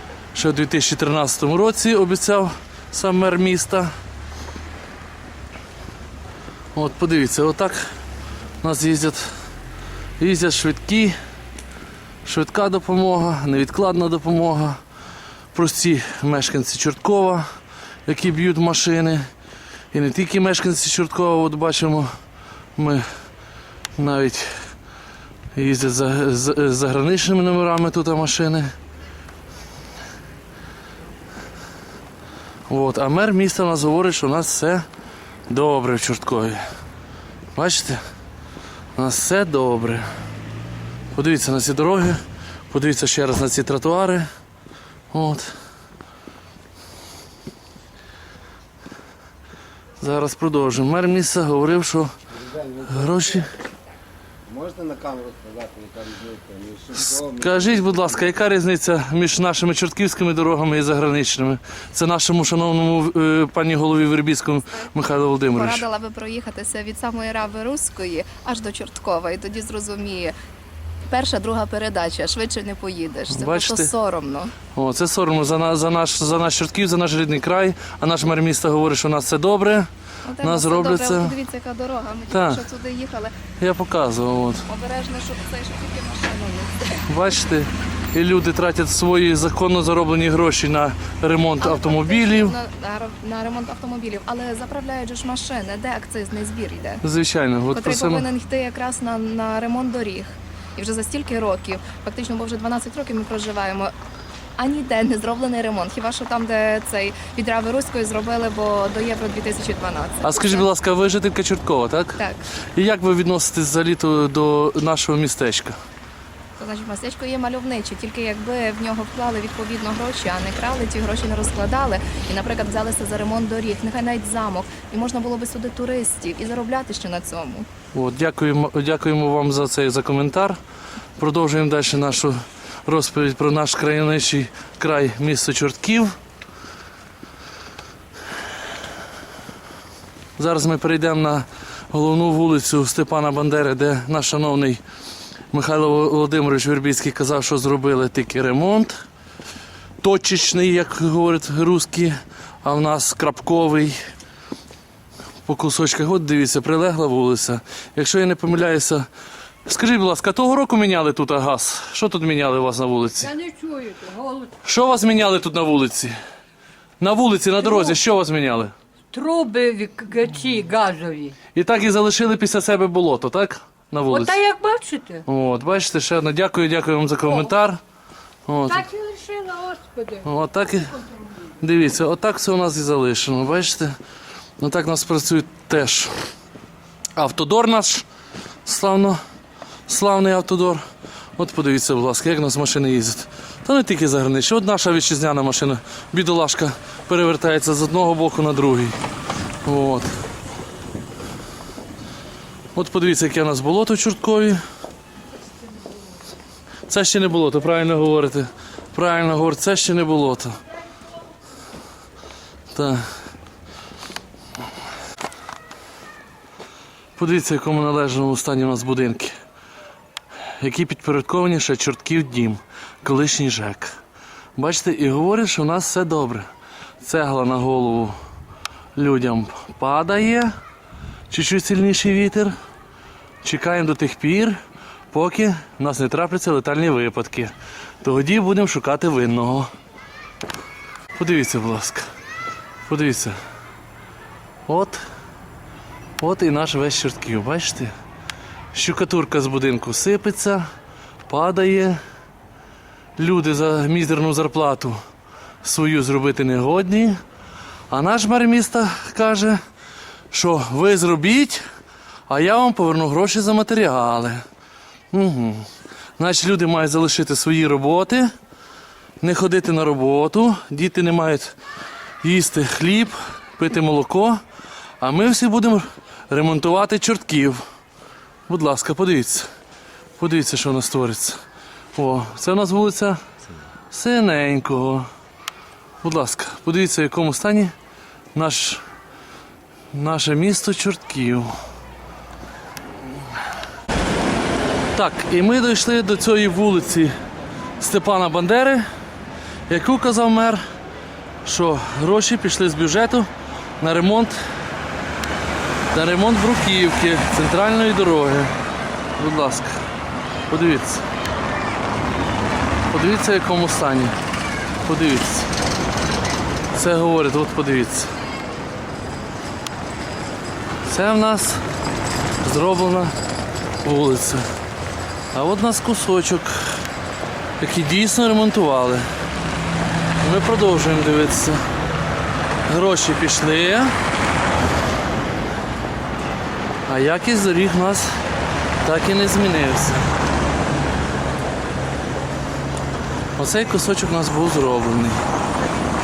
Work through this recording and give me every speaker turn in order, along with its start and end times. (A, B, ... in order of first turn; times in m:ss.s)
0:00.3-0:03.9 A
0:06.7-0:07.9 A
0:08.6-0:09.3 A
0:10.2-0:11.2 A
0:12.2-0:14.8 A
0:15.5-0:17.5 A
0:18.1-0:19.3 A
0:19.9-0:22.1 A
0:22.8-0:23.0 A
0:24.0-0:24.5 A
0:25.5-0:28.7 A
0:32.7-0:34.9 A
0:35.5-0:36.6 A
0:37.6-0:38.0 A
0:39.0-0:40.1 A
0:41.1-0:42.2 A
0:42.7-0:44.3 A
0:45.1-0:45.5 A
0:50.0-0:52.1 A
0:52.3-0:53.4 B
0:52.9-0:53.5 A
0:54.5-0:58.3 B
0:57.0-1:05.8 A
1:05.5-1:10.4 C
1:11.1-1:14.6 C
1:13.3-1:13.9 A
1:14.7-1:19.9 A
1:20.2-1:23.4 C
1:20.4-1:21.4 A
1:22.3-1:22.6 A
1:23.6-1:24.6 A
1:24.7-1:27.0 C
1:27.1-1:32.6 A
1:31.6-1:37.0 C
1:37.0-1:38.3 A
1:37.7-1:43.9 C
1:44.6-1:50.7 C
1:50.2-1:52.2 A
1:52.2-1:52.4 C
1:52.7-1:55.8 A
1:56.6-2:07.7 C
2:07.9-2:10.6 A
2:11.2-2:16.2 A
2:20.4-2:24.8 A
2:25.5-2:29.0 A
2:30.0-2:34.0 A
2:35.4-2:39.1 A
2:39.7-2:43.3 A
2:43.2-2:44.5 D
2:44.6-2:46.2 A
2:47.0-2:48.7 A
2:49.1-2:51.4 D
2:51.5-2:54.4 A
2:54.1-2:55.2 D
2:55.3-2:57.8 A
2:58.5-2:58.9 A
2:58.7-3:00.2 D
3:00.2-3:01.0 A
3:01.6-3:04.0 A
3:04.6-3:06.1 A
3:07.2-3:08.0 A
3:08.7-3:09.2 A
3:09.9-3:10.8 A
3:11.4-3:19.0 A
3:19.6-3:20.1 A
3:22.7-3:24.6 A
3:26.9-3:30.6 A
3:32.7-3:33.1 A
3:37.2-3:39.3 A
3:40.6-3:44.0 A
3:44.6-3:46.5 A
3:47.0-3:48.2 A
3:49.0-3:50.5 A
3:51.3-3:52.5 A
3:53.4-3:54.6 A
3:55.1-3:59.7 A
4:01.2-4:02.0 A
4:02.9-4:03.4 A
4:04.7-4:05.0 A
4:06.2-4:07.9 A
4:08.7-4:10.7 A
4:11.3-4:12.0 A
4:13.2-4:15.0 A
4:15.6-4:17.2 A
4:17.9-4:19.6 A
4:20.3-4:21.6 A
4:22.3-4:24.4 A
4:25.1-4:25.7 A
4:26.2-4:28.3 A
4:29.2-4:31.6 A
4:32.2-4:34.4 A
4:35.0-4:37.6 A
4:38.5-4:39.5 A
4:40.2-4:41.4 A
4:42.0-4:43.2 A
4:43.9-4:45.1 A
4:46.0-4:47.7 A
4:48.3-4:48.8 A
4:49.9-4:51.5 A
4:54.9-4:57.1 A
4:57.8-4:58.8 A
4:59.7-5:00.6 A
5:01.4-5:03.3 A
5:03.8-5:04.4 A
5:05.9-5:08.5 A
5:09.2-5:09.8 A
5:10.5-5:11.0 A
5:12.9-5:14.2 A
5:14.8-5:15.5 A
5:16.7-5:18.1 A
5:20.9-5:21.6 A
5:22.4-5:23.1 A
5:23.8-5:24.5 A
5:25.3-5:26.8 A
5:27.6-5:29.1 A
5:30.2-5:31.6 A
5:32.7-5:34.0 A
5:36.9-5:38.2 A
5:38.8-5:40.1 A
5:43.4-5:45.2 A